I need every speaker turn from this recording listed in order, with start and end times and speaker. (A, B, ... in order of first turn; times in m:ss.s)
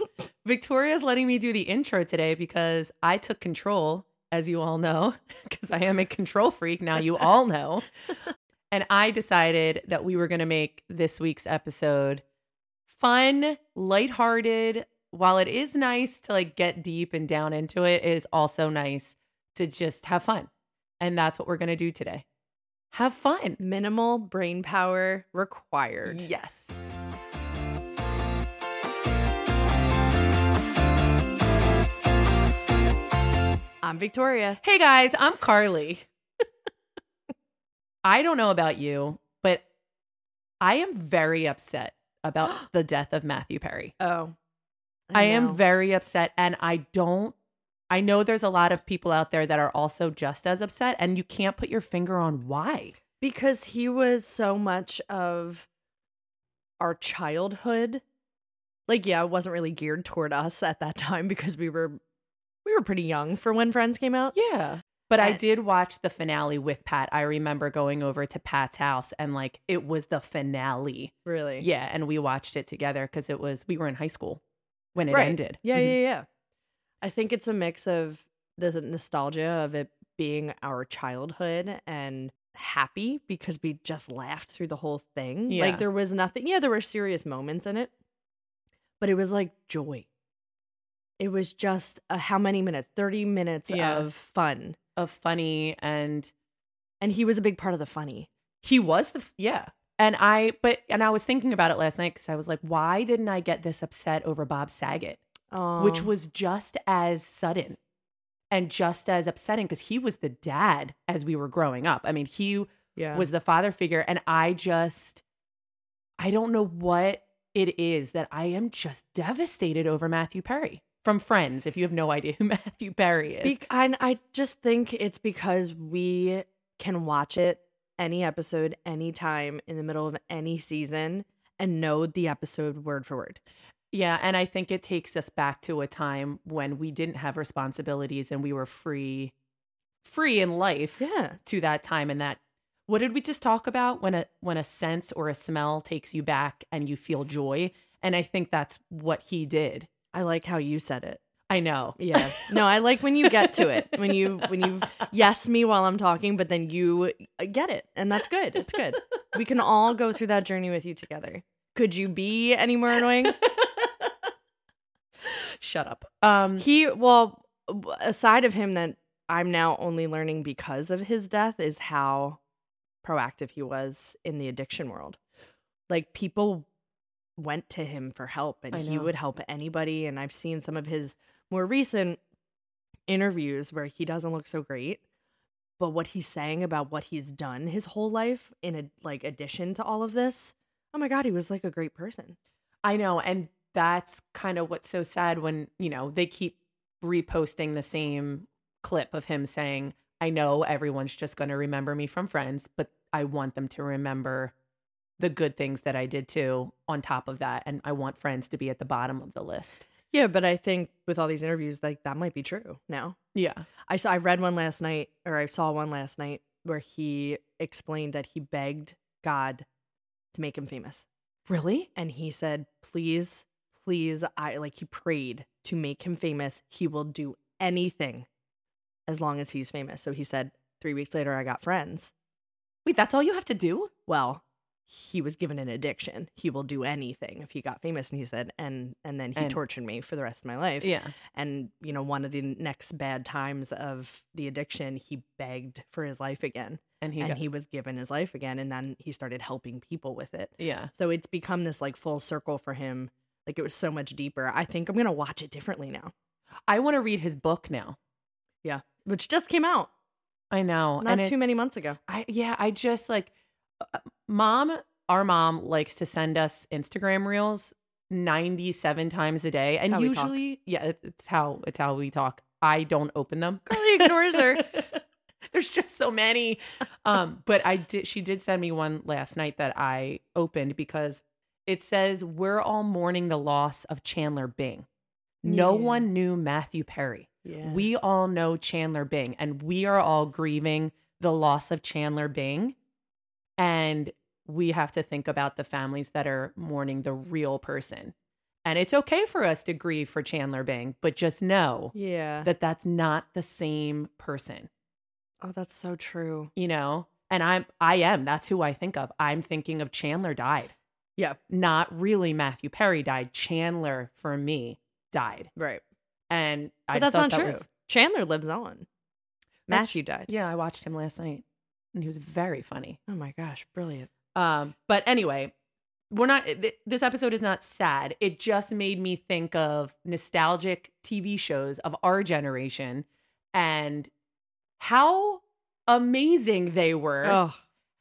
0:00.4-0:07.9 A
0:08.7-0:12.2 A
0:12.9-0:22.2 A
0:22.9-0:23.6 A
0:23.6-0:26.2 B
0:26.1-0:26.9 A
0:33.8-0:34.6 B
0:34.6-0:36.1 A
0:38.0-0:39.6 A
0:40.6-0:43.9 A
0:44.0-0:44.3 B
0:45.1-0:45.6 B
0:45.1-0:47.4 A
0:47.9-0:53.0 A
0:53.2-0:55.7 B
0:56.8-0:58.0 B
0:58.9-1:02.0 B
1:02.6-1:04.4 B
1:04.3-1:14.4 A
1:11.2-1:11.7 B
1:14.9-1:16.0 A
1:15.1-1:16.2 B
1:17.0-1:27.9 B
1:25.5-1:25.8 A
1:29.0-1:30.1 B
1:31.2-1:34.8 B
1:33.7-1:34.1 A
1:35.0-1:36.3 A
1:37.0-1:38.3 B
1:38.6-1:45.2 A
1:45.5-1:46.1 B
1:45.8-1:47.8 A
1:48.5-1:55.2 A
1:53.0-1:53.3 B
1:56.2-2:03.6 A
2:03.4-2:13.4 B
2:13.9-2:19.3 A
2:20.0-2:29.9 A
2:21.0-2:21.4 B
2:30.1-2:31.2 B
2:31.5-2:32.6 A
2:32.0-2:43.4 B
2:33.2-2:34.7 A
2:43.3-2:44.1 A
2:45.2-2:46.6 A
2:46.6-2:52.4 B
2:53.0-2:55.2 B
2:55.9-2:56.7 B
2:57.4-3:02.2 B
2:58.7-2:59.1 A
3:03.1-3:05.0 B
3:05.8-3:12.4 B
3:12.8-3:24.5 A
3:25.2-3:29.8 A
3:30.1-3:33.2 B
3:33.3-3:33.6 A
3:33.8-3:39.6 B
3:40.3-3:41.0 B
3:41.4-3:41.9 A
3:41.9-3:48.3 B
3:49.1-3:52.1 B
3:52.8-3:53.9 A
3:54.1-4:16.1 B
4:00.8-4:01.1 A
4:07.0-4:07.4 A
4:10.6-4:10.9 A
4:16.7-4:18.0 A
4:18.6-4:19.9 B
4:20.5-4:21.3 A
4:21.0-4:22.0 B
4:22.1-4:44.8 A
4:29.9-4:30.3 B
4:33.7-4:34.7 B
4:45.4-4:52.8 A
4:45.4-4:46.1 B
4:47.4-4:47.9 B
4:53.6-4:58.1 A
4:58.6-5:04.7 A
5:01.9-5:02.5 B
5:05.4-5:06.5 B
5:06.5-5:10.7 A
5:11.5-5:15.5 A
5:15.6-5:15.8 B
5:16.3-5:17.6 A
5:16.9-5:18.8 B
5:19.7-5:20.3 B
5:19.7-5:23.0 A
5:23.1-5:24.1 B
5:24.3-5:25.5 A
5:26.1-5:34.1 A
5:34.8-5:37.4 A
5:37.2-5:37.6 B